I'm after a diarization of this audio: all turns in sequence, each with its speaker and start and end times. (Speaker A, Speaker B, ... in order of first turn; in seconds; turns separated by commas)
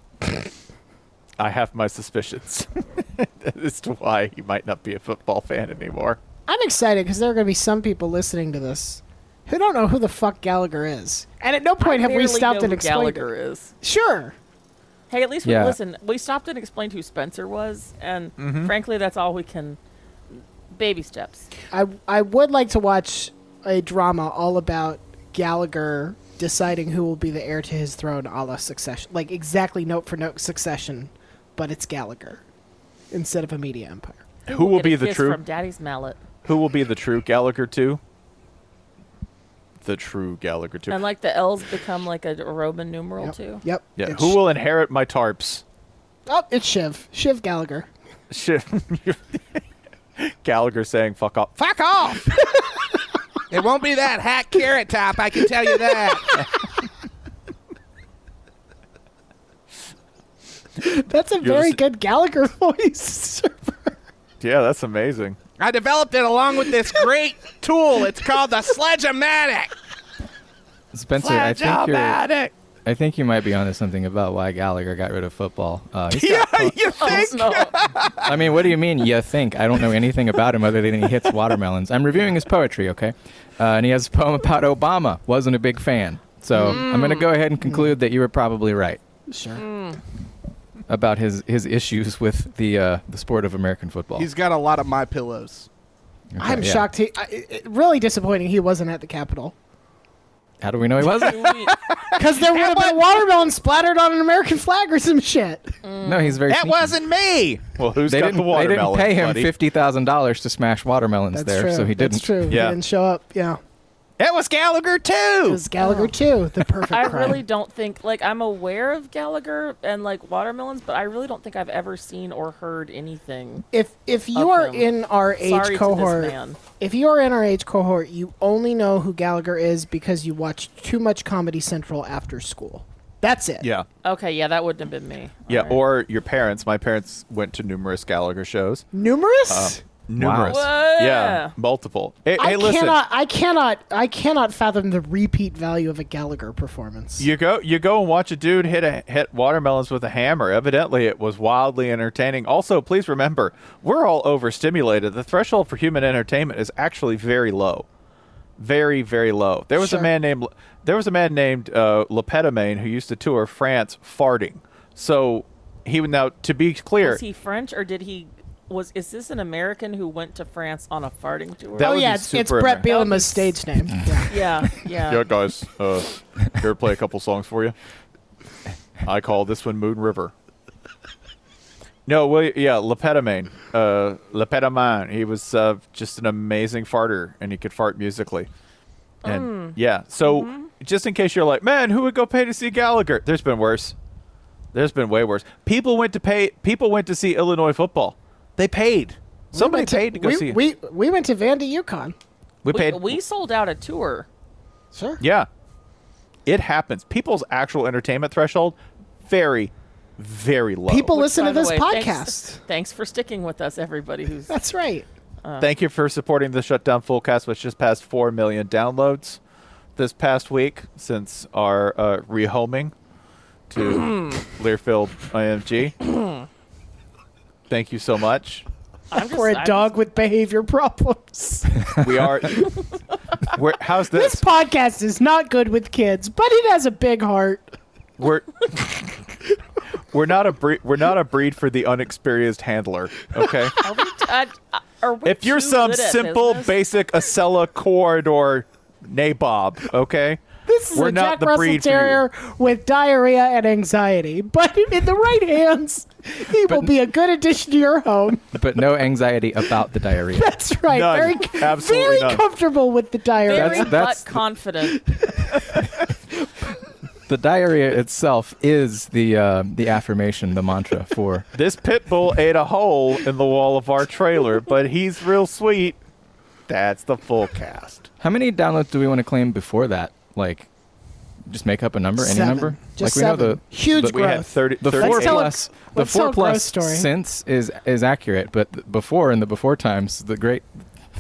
Speaker A: 1.4-6.2, Speaker B: 6.5-13.3, Speaker C: 11.8-13.7, Speaker B: 13.8-14.3, Speaker C: 15.1-19.8, Speaker D: 15.4-15.8, Speaker A: 18.4-18.7, Speaker C: 20.3-21.5, Speaker B: 21.7-32.4, Speaker B: 33.1-34.2, Speaker A: 34.5-35.4, Speaker C: 34.5-36.2, Speaker A: 36.5-38.0, Speaker A: 39.8-41.0, Speaker C: 40.9-43.6, Speaker B: 43.2-44.4, Speaker A: 44.0-45.6, Speaker B: 46.3-47.9, Speaker A: 48.3-49.6, Speaker A: 50.2-52.3, Speaker B: 52.1-52.9, Speaker E: 53.5-56.4, Speaker B: 55.6-56.4, Speaker B: 60.8-64.0, Speaker A: 61.4-61.8, Speaker A: 64.4-65.4, Speaker E: 65.6-69.7, Speaker D: 70.9-72.2, Speaker E: 71.2-72.0, Speaker A: 71.3-72.5, Speaker D: 72.8-77.3, Speaker A: 76.1-78.3, Speaker C: 77.0-77.7, Speaker D: 78.2-89.0, Speaker B: 86.5-86.8, Speaker C: 86.6-87.3, Speaker B: 87.6-87.9, Speaker B: 89.3-89.6, Speaker C: 89.6-90.0, Speaker D: 90.9-94.3, Speaker E: 94.2-95.7, Speaker D: 96.3-96.9, Speaker B: 96.4-99.5, Speaker D: 100.6-101.6, Speaker C: 101.2-101.8, Speaker A: 101.3-102.2, Speaker B: 102.2-105.8, Speaker C: 105.8-106.4, Speaker D: 106.0-107.0, Speaker A: 106.5-109.5, Speaker D: 108.1-112.4, Speaker B: 111.3-113.6, Speaker A: 112.5-112.8, Speaker A: 114.2-115.6, Speaker B: 115.5-117.4, Speaker C: 115.8-116.1, Speaker C: 116.9-123.6, Speaker B: 123.7-133.7, Speaker C: 124.3-124.9, Speaker C: 125.4-126.6, Speaker A: 133.6-133.9, Speaker C: 134.0-135.8, Speaker A: 135.5-138.8, Speaker B: 138.9-139.8, Speaker A: 139.5-143.0, Speaker D: 140.2-140.6, Speaker C: 140.5-141.5, Speaker B: 142.4-147.3, Speaker A: 147.2-157.9, Speaker A: 158.6-167.2, Speaker B: 159.8-160.1, Speaker C: 167.0-171.9, Speaker A: 171.8-172.9, Speaker B: 171.8-174.3, Speaker C: 172.8-173.6, Speaker C: 174.3-175.3, Speaker A: 175.1-177.8, Speaker A: 179.0-180.3, Speaker A: 182.1-188.5, Speaker C: 189.2-190.7, Speaker A: 189.2-193.9, Speaker A: 194.7-200.6, Speaker B: 199.5-202.2, Speaker A: 202.6-203.2, Speaker C: 202.7-204.3, Speaker B: 204.9-205.2, Speaker A: 205.2-205.5, Speaker A: 206.5-211.2, Speaker B: 210.9-212.6, Speaker C: 211.1-214.6, Speaker B: 214.5-215.1, Speaker A: 215.6-219.4, Speaker A: 220.0-222.9, Speaker A: 223.7-226.0, Speaker A: 227.7-228.7, Speaker C: 229.1-229.9, Speaker B: 229.1-232.5, Speaker A: 232.0-232.8, Speaker A: 233.4-234.4, Speaker B: 234.1-237.8, Speaker A: 238.2-239.2, Speaker A: 240.1-243.8, Speaker C: 243.8-246.8, Speaker A: 245.2-250.4, Speaker B: 250.7-258.6, Speaker A: 250.9-252.2, Speaker D: 258.5-260.5, Speaker B: 260.3-264.0, Speaker A: 260.9-262.4, Speaker C: 263.4-265.1, Speaker D: 263.5-264.4, Speaker B: 265.1-265.9, Speaker D: 267.3-271.5, Speaker A: 271.5-276.0, Speaker A: 276.7-278.1, Speaker D: 278.2-280.7, Speaker D: 281.5-290.9, Speaker B: 282.2-287.1, Speaker A: 284.0-285.6